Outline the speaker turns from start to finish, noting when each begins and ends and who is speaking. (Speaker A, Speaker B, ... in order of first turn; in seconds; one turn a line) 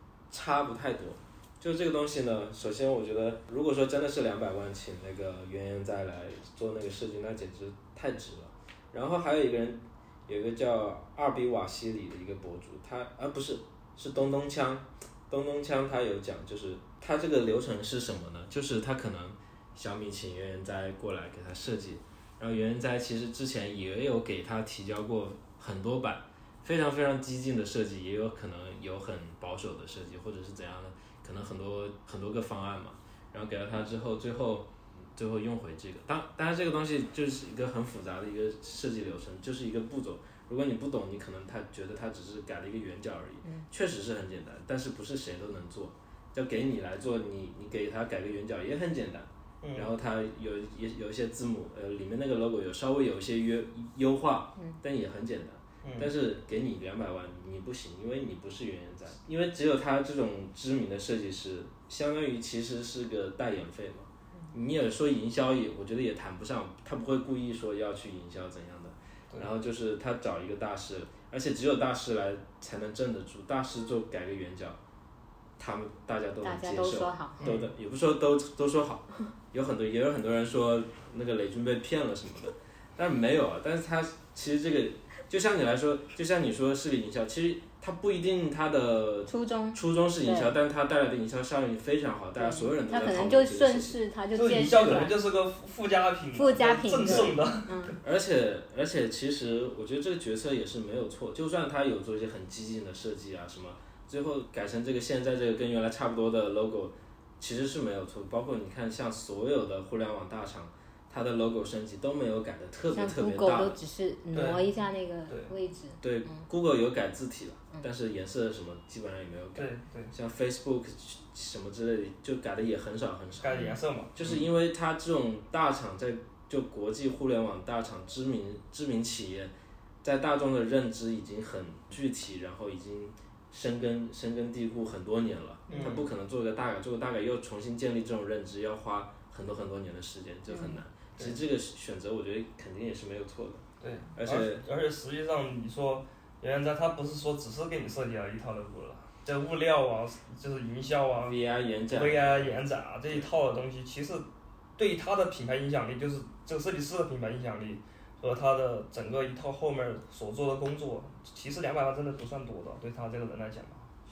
Speaker A: 0.3-74.8
Speaker B: 49.6-49.9
Speaker B: 55.8-56.1
Speaker A: 75.6-94.0
Speaker C: 76.4-77.5
Speaker B: 77.4-77.7
Speaker C: 89.3-90.5
Speaker C: 92.4-95.2
Speaker B: 94.3-98.0
Speaker C: 96.3-98.0
Speaker A: 97.0-97.4
Speaker A: 98.0-113.8
Speaker C: 112.9-116.5
Speaker B: 114.3-114.7
Speaker A: 116.0-123.6
Speaker B: 119.6-120.1
Speaker B: 123.4-124.4
Speaker C: 123.5-123.8
Speaker A: 124.2-129.5
Speaker A: 130.0-143.6
Speaker B: 135.7-136.1
Speaker C: 140.5-140.8
Speaker B: 143.8-151.4
Speaker A: 144.2-144.6
Speaker A: 151.2-153.3
Speaker B: 151.9-154.3
Speaker B: 154.8-163.9